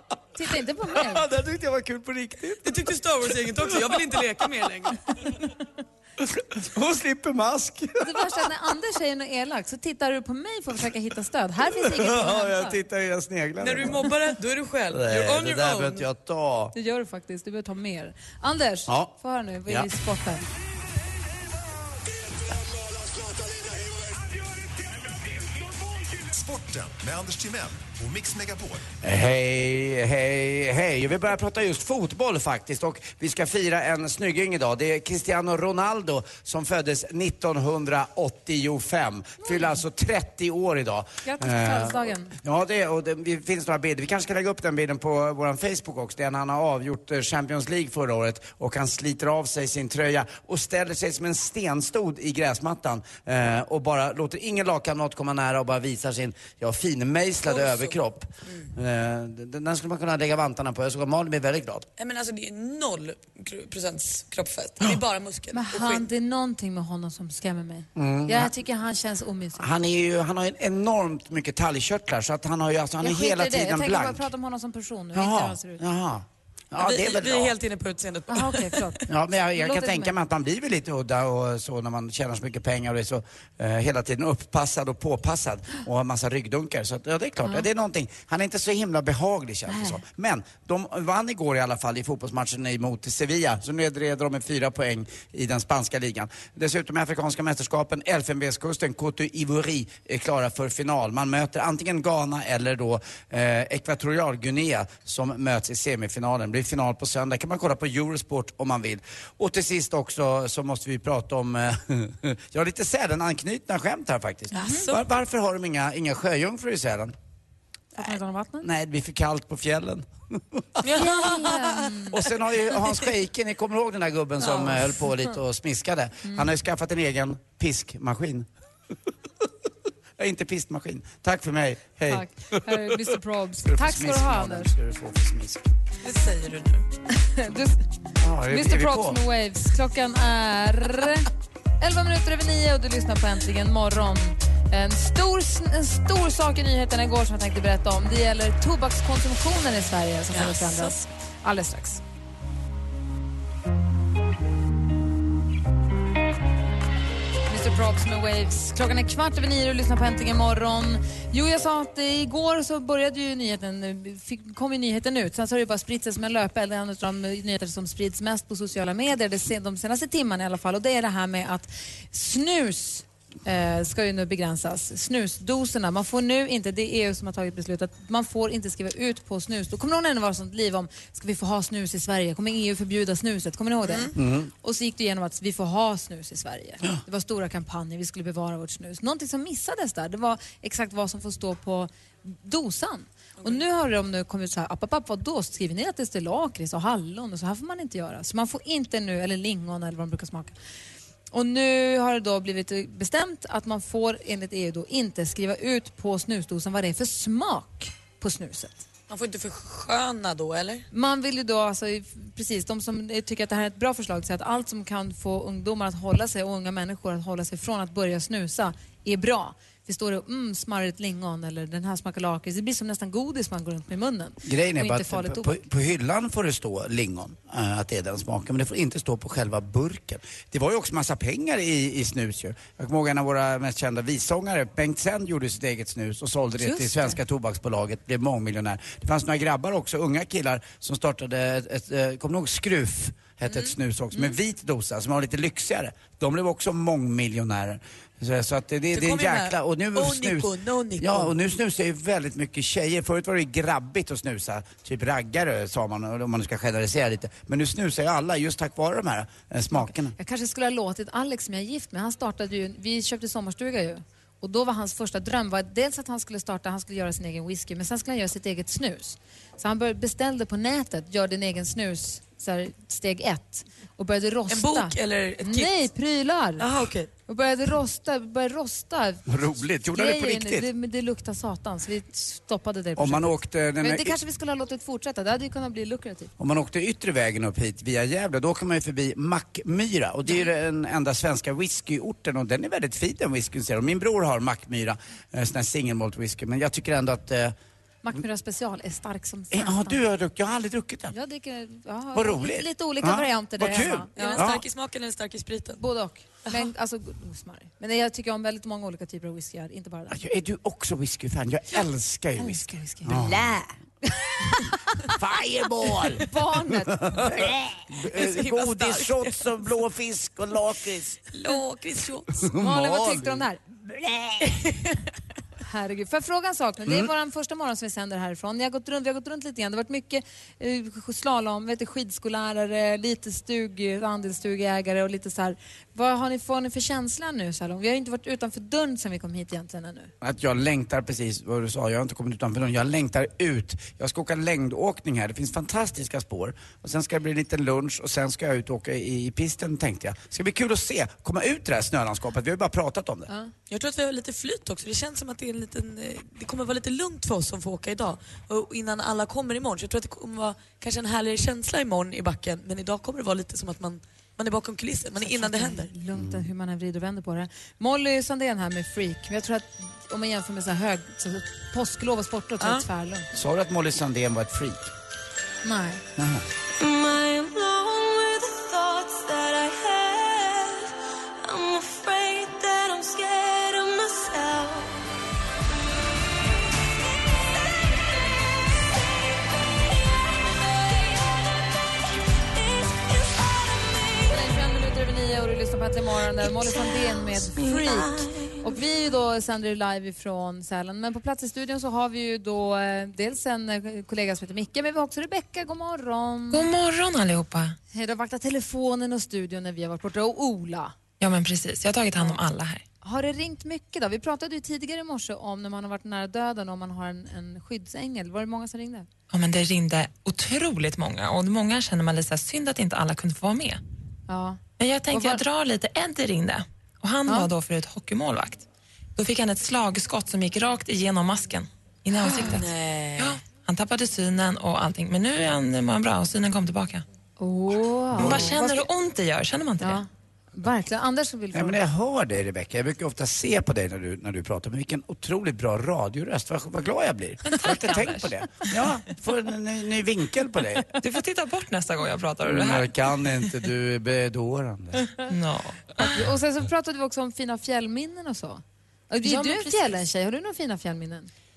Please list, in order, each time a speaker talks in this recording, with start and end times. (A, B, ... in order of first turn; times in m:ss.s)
0:00.4-0:01.3 A
0:00.9-0:02.8 B
0:02.6-0:05.0 C
0:06.2-0:08.2 B
0:08.0-0:12.8 A
0:11.7-0:14.2 B
0:13.6-0:16.0 C
0:14.9-0:16.7 B
0:16.7-0:20.4 A
0:18.9-0:19.1 B
0:25.9-0:28.9 D
0:29.0-1:01.9 B
0:39.4-0:39.7 A
0:41.2-0:42.3 A
0:57.4-0:58.7 C
1:02.0-1:06.1 C
1:05.5-1:09.7 A
1:08.0-1:08.5 B
1:09.6-1:14.3 B
1:13.0-1:15.8 A
1:15.1-1:17.6 B
1:16.8-1:19.0 C
1:18.3-1:19.0 A
1:19.1-1:57.1 B
1:19.6-1:20.2 A
1:29.7-1:30.0 A
1:54.5-1:55.0 C
1:54.6-1:54.9 A
1:58.0-1:58.7 A
1:58.6-2:08.4 B
2:00.8-2:01.8 C
2:00.9-2:02.2 A
2:04.4-2:04.7 C
2:10.2-2:12.9 B
2:12.1-2:14.7 A
2:13.6-2:15.7 B
2:16.0-2:16.9 C
2:17.2-2:17.8 A
2:18.2-2:19.2 B
2:18.5-2:21.3 A
2:21.8-2:32.0 A
2:30.3-2:31.0 C
2:37.5-3:20.6 A
3:03.8-3:04.1 C
3:04.1-3:04.5 B
3:21.3-3:28.8 A
3:29.1-3:30.9 C
3:30.9-3:45.6 A
3:44.4-4:20.2 B
3:56.6-3:57.2 A
4:08.9-4:11.3 C
4:19.7-4:36.6 A
4:34.5-4:35.9 C
4:36.6-4:37.1 C
4:37.3-4:39.3 A
4:39.3-4:40.7 B
4:39.8-4:46.3 A
4:43.0-4:44.2 B
4:46.4-4:57.5 B
4:58.0-5:00.0 A
4:59.5-5:01.1 B
5:01.1-5:04.4 A
5:02.1-5:04.6 B
5:04.1-5:05.8 C
5:05.8-5:10.2 A
5:10.1-5:13.6 B
5:12.4-5:13.6 A
5:15.1-5:21.2 B
5:16.1-5:17.6 A
5:18.1-5:19.4 C
5:21.3-5:22.4 C
5:22.3-5:24.6 B
5:22.6-5:23.6 A
5:25.6-5:40.1 A
5:26.8-5:27.1 B
5:40.2-5:53.3 B
5:53.7-6:05.9 C
6:05.2-6:13.3 A
6:06.1-6:06.5 B
6:13.3-6:14.9 B
6:15.6-6:16.0 A
6:16.2-6:16.4 B
6:16.8-6:20.8 E
6:21.4-6:25.0 E
6:34.2-6:46.7 A
6:46.5-6:47.8 F
6:47.9-6:51.0 A
6:51.2-6:52.8 F
6:53.0-6:59.1 A
6:59.3-7:03.8 F
7:04.3-7:04.6 A
7:04.8-7:08.6 F
7:05.1-7:05.4 A
7:09.2-7:17.0 F
7:12.3-7:12.6 A
7:12.4-7:13.3 C
7:17.4-7:18.9 A
7:18.1-7:20.0 F
7:19.8-7:21.8 A
7:21.5-7:30.9 B
7:27.4-7:28.7 F
7:31.0-7:32.9 F
7:32.4-7:35.1 B
7:35.3-7:36.3 F
7:36.0-7:41.3 A
7:39.2-7:40.0 F